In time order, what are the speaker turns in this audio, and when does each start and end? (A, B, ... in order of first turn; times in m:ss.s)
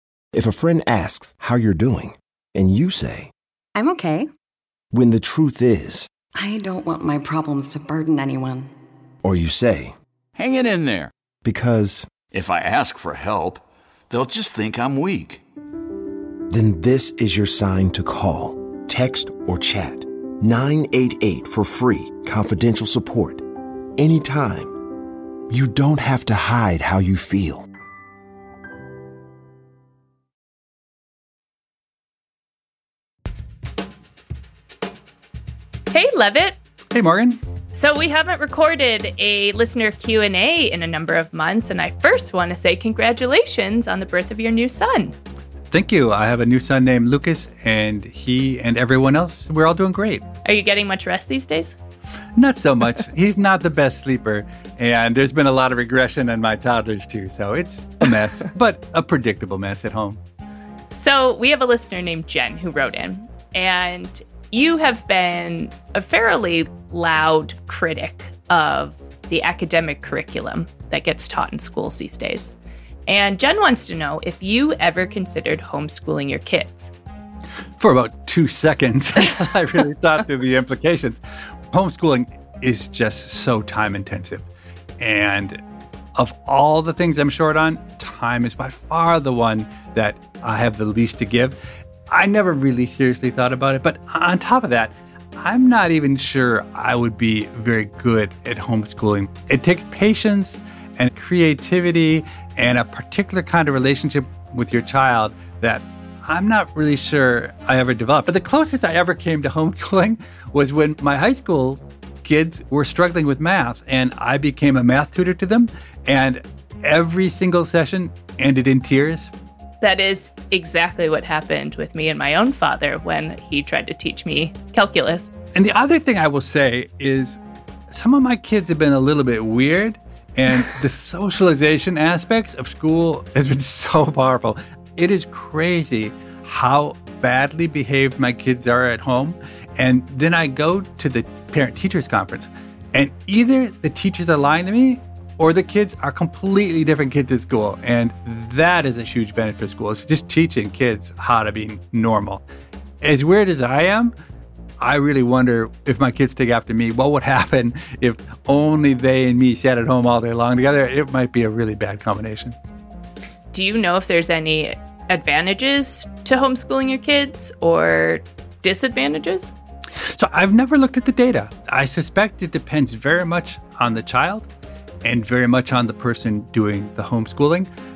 0:00.3-0:03.3 A
0:03.8-0:04.3 B
0:04.9-0:06.1 A
0:06.4-0:08.7 B
0:09.2-0:10.0 A
0:10.4-0:11.1 C
0:11.4-0:12.1 A
0:12.3-0:15.4 C
0:16.5-0:23.5 A
0:24.0-0:24.8 A
0:25.5-0:27.7 A
0:35.9-0:36.6 D
0:36.9-0:37.4 E
0:37.7-0:45.2 D
0:45.7-0:50.3 E
0:50.4-0:51.8 D
0:52.4-1:00.2 E
1:00.9-1:12.5 D
1:13.1-1:16.9 D
1:17.8-1:21.2 E
1:21.7-1:24.5 E
1:25.0-1:25.6 E
1:26.2-1:31.6 E
1:32.1-1:59.3 E
1:59.8-2:05.3 D
2:05.5-2:32.4 E
2:33.0-2:34.1 E
2:34.8-2:42.6 E
2:43.5-2:49.5 D
2:50.1-2:54.5 E
2:55.0-2:57.7 E